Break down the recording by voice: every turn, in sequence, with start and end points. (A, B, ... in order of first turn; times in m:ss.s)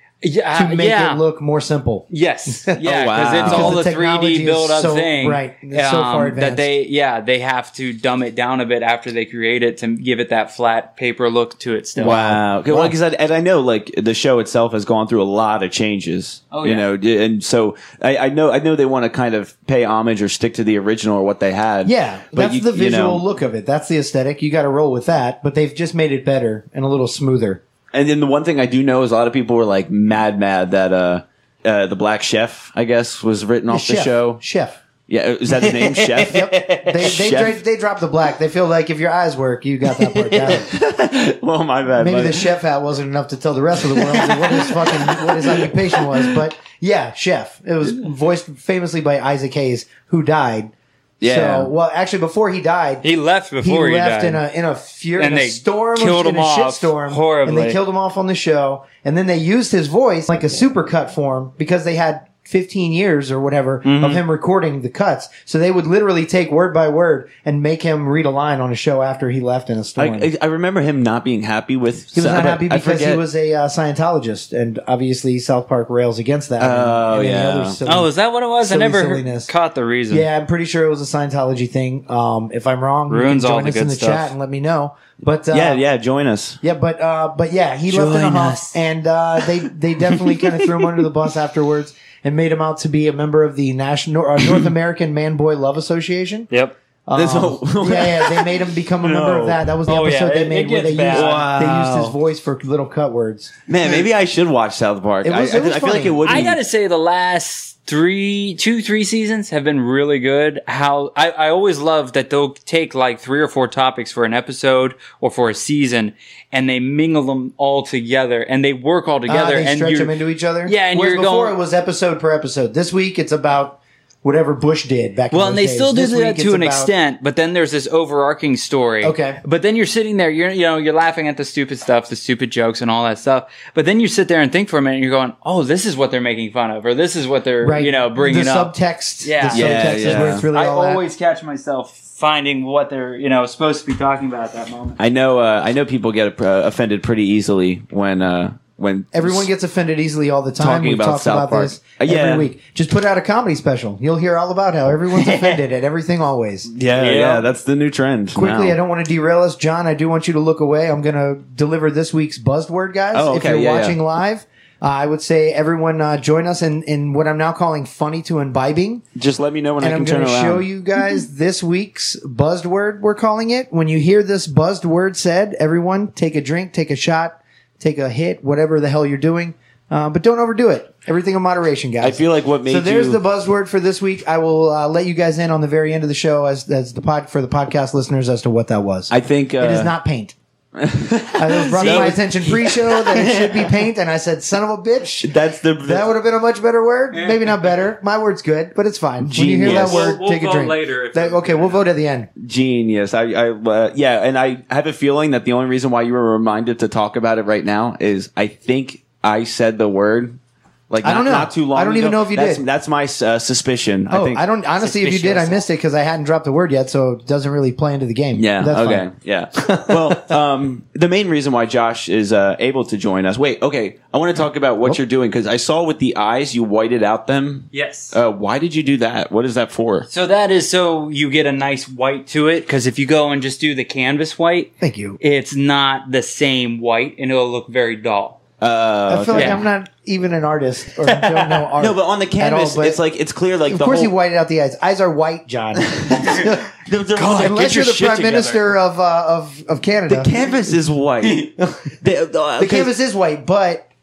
0:00.2-0:01.2 A
0:00.6-0:02.8 B
0:02.1-0:12.3 A
0:02.8-0:03.8 C
0:03.4-0:06.7 B
0:12.0-0:23.2 C
0:12.0-0:12.9 B
0:16.5-0:16.8 A
0:21.8-0:27.6 B
0:27.9-0:34.4 C
0:33.7-0:34.8 B
0:35.1-0:37.6 C
0:35.6-0:36.9 A
0:36.2-0:40.7 B
0:40.1-0:42.6 C
0:42.0-0:53.0 B
0:43.9-0:45.7 C
0:51.2-0:51.7 C
0:53.0-0:54.4 A
0:53.6-1:10.3 B
0:55.2-0:57.8 A
1:03.8-1:04.2 A
1:10.0-1:13.2 C
1:12.1-1:18.1 B
1:16.6-1:17.8 C
1:17.8-1:20.3 A
1:18.6-1:19.5 B
1:20.1-1:25.8 B
1:23.1-1:24.3 A
1:25.5-1:26.6 C
1:26.6-1:36.5 B
1:27.9-1:28.6 C
1:30.1-1:31.0 C
1:36.5-1:36.8 A
1:37.1-1:44.0 B
1:37.1-1:39.6 C
1:39.8-1:41.5 A
1:41.1-1:42.1 C
1:43.7-1:46.6 C
1:45.2-1:46.5 B
1:46.2-2:01.6 A
1:59.3-2:06.9 B
2:05.3-2:25.0 A
2:09.0-2:09.4 B
2:17.6-2:21.0 B
2:19.5-2:20.5 C
2:25.0-2:29.5 C
2:29.1-2:36.7 B
2:30.6-2:32.5 C
2:35.1-2:35.6 A
2:36.7-2:38.8 C
2:36.9-2:37.4 A
2:38.3-2:49.0 B
2:43.1-2:44.0 C
2:49.2-2:50.6 C
2:49.8-3:10.3 B
3:02.0-3:03.2 C
3:09.1-3:09.9 C
3:10.8-3:13.7 C
3:11.3-3:15.3 B
3:11.8-3:12.1 A
3:15.2-3:16.1 C
3:15.8-3:22.3 B
3:17.1-3:17.6 A
3:19.2-3:20.1 C
3:19.6-3:21.8 A
3:22.4-3:30.4 C
3:30.9-3:34.4 C
3:31.0-3:32.6 B
3:34.1-3:40.3 B
3:34.8-3:35.6 A
3:38.4-3:50.1 C
3:47.7-3:48.2 A
3:50.1-3:58.4 A
3:54.8-3:55.2 B
3:58.6-3:59.6 C
3:59.1-4:03.0 B
3:59.3-3:59.6 A
4:01.8-4:04.1 C
4:03.7-4:10.3 B
4:05.8-4:08.6 C
4:10.1-4:12.9 C
4:12.6-4:13.8 B